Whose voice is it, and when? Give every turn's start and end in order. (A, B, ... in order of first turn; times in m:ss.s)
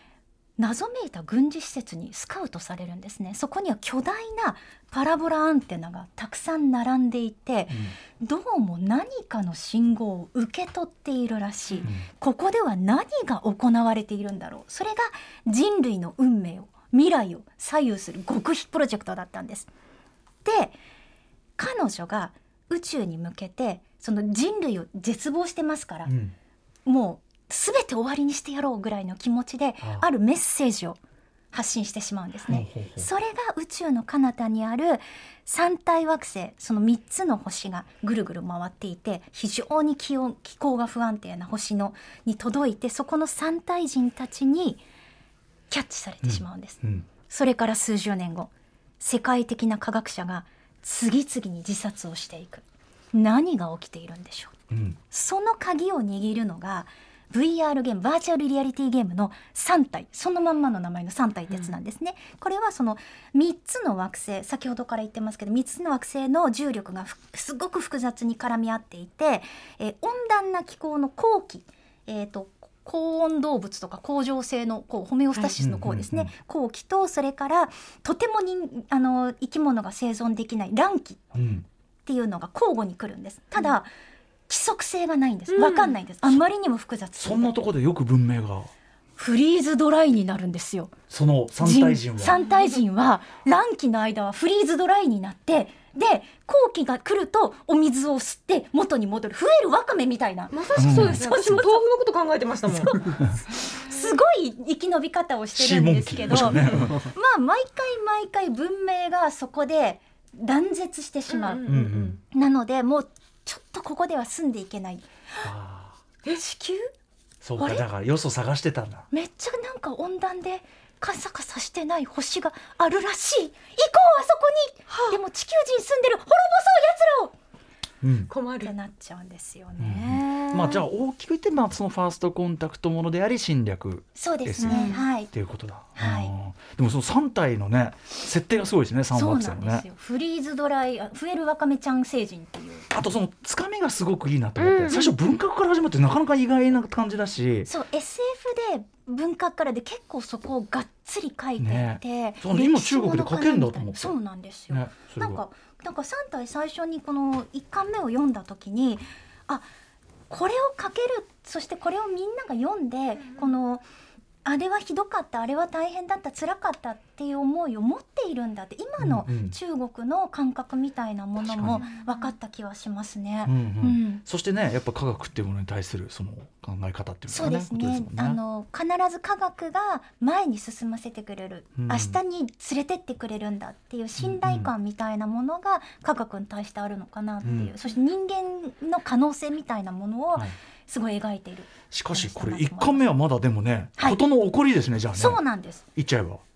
0:00.6-0:19.7 A
0:20.4-0:20.8 A
0:21.6-0:26.1 A
0:26.0-0:26.3 B
0:26.8-0:31.0 A
0:31.5-0:44.8 A
0:32.5-0:33.1 B
0:45.7-0:54.5 A
0:46.2-0:47.0 B
0:54.7-0:55.0 B
0:55.1-1:21.2 A
1:15.6-1:16.3 B
1:21.3-1:21.6 B
1:22.0-1:23.9 A
1:24.5-1:27.6 A
1:25.5-1:26.0 C
1:27.2-1:28.7 B
1:29.2-1:30.9 A
1:31.1-1:32.4 B
1:31.6-1:41.8 A
1:32.4-1:32.7 C
1:40.5-1:43.1 C
1:40.8-1:41.2 B
1:43.7-1:51.7 A
1:43.8-1:44.1 C
1:45.5-1:47.0 B
1:51.3-1:52.2 C
1:51.6-1:52.2 B
1:52.2-1:55.5 A
1:55.4-1:55.9 B
1:56.3-1:56.9 A
1:57.4-1:59.0 B
1:57.6-1:57.8 A
1:59.1-2:07.3 A
2:04.9-2:05.2 C
2:08.0-2:08.3 B
2:08.3-2:08.7 C
2:08.6-2:10.8 A
2:09.8-2:19.8 B
2:14.1-2:15.3 A
2:14.6-2:15.0 C
2:16.0-2:16.3 A
2:19.1-2:22.9 A
2:22.9-2:27.7 B
2:24.6-2:25.1 C
2:27.6-2:39.6 A
2:31.6-2:34.2 B
2:34.7-2:35.4 B
2:40.3-2:43.8 A
2:44.4-2:54.2 A
2:49.0-2:49.6 B
2:51.4-2:51.9 B
2:51.6-2:52.2 C
2:53.4-2:58.4 B
2:57.3-3:13.1 A
3:01.8-3:02.2 B
3:04.2-3:04.7 B
3:07.4-3:07.7 B
3:11.9-3:15.4 B
3:15.1-3:15.8 A
3:16.0-3:16.4 B